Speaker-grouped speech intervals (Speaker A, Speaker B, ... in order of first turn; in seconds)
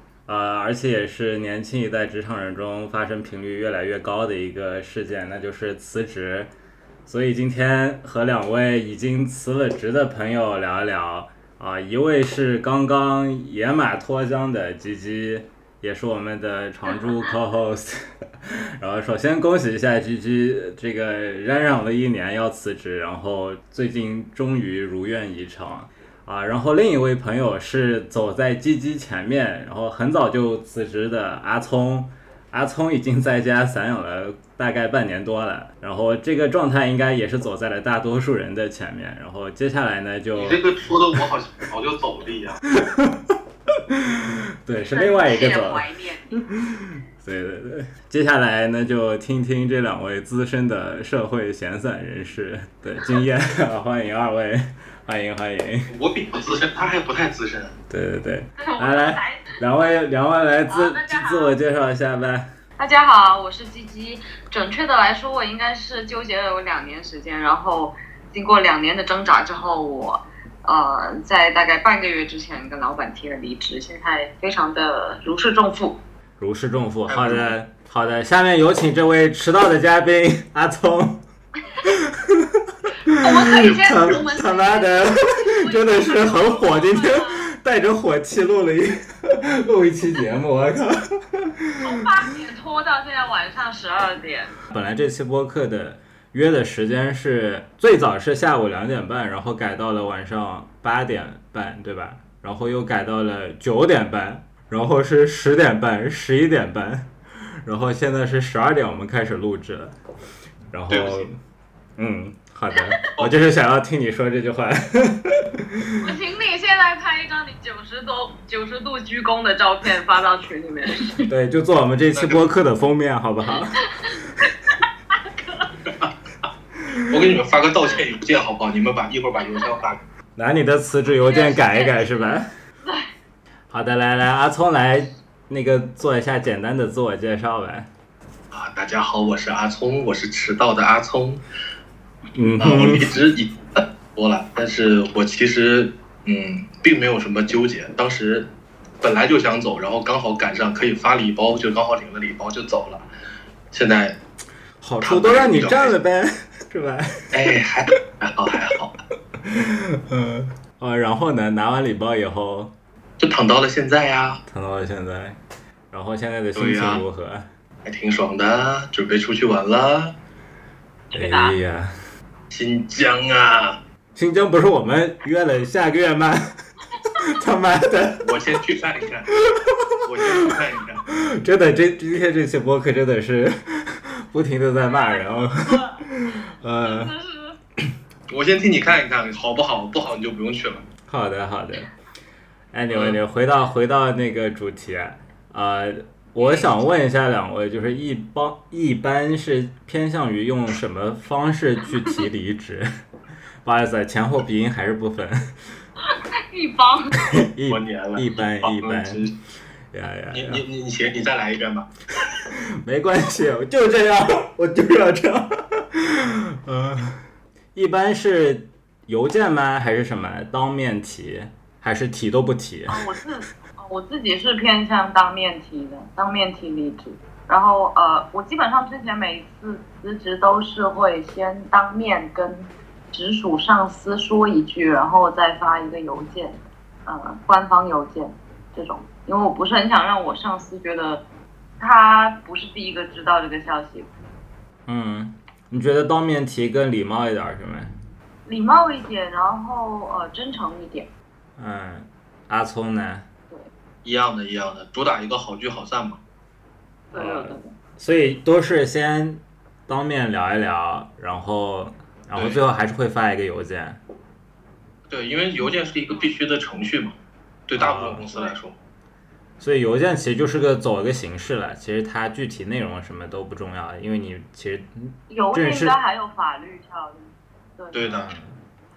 Speaker A: 0.3-6.5, 7.1-40.6, 42.7-55.9, 57.9-62.5, 76.4-81.2, 81.8-91.8, 94.7-110.0, 110.7-111.4, 112.0-116.1, 121.3-123.8, 126.9-127.3, 130.4-132.5, 133.7-137.9, 142.3-143.1, 154.8-157.5, 159.4-162.7, 164.5-165.4, 165.9-167.5, 171.1-171.9, 174.2-176.5, 177.2-178.6, 179.3-180.5, 181.1-187.1, 191.1-191.9, 192.7-202.9, 203.6-205.6, 207.2-209.3, 209.9-210.6, 212.5-217.2, 217.8-223.1, 244.9-247.9, 251.6-253.3, 257.1-264.0, 267.8-268.3, 269.6-276.0, 278.0-278.6
Speaker B: 40.4-42.6, 55.9-57.7, 77.1-77.5, 83.4-84.2, 110.9-111.3, 122.1-122.4, 127.0-130.0, 138.5-141.4, 142.6-148.5, 149.0-153.0, 153.7-154.2, 155.0-155.9, 157.3-158.9, 163.2-164.4, 166.6-167.0, 167.8-170.1, 172.5-173.8, 178.2-179.3, 180.0-181.0, 188.3-190.8, 192.9-193.2, 207.7-209.3, 210.3-212.3, 254.0-256.2, 262.3-262.6, 265.1-267.1, 267.7-268.8, 277.9-278.3
Speaker C: 44.9-46.4, 58.6-59.6, 60.7-61.5, 62.8-76.0, 83.1-87.5, 91.8-94.5, 116.0-121.3, 123.8-124.7, 131.2-133.1, 171.1-171.6, 184.9-186.0, 186.8-187.6, 206.1-207.4, 222.9-241.2, 241.8-244.1, 248.5-251.1, 257.1-257.7, 275.3-278.0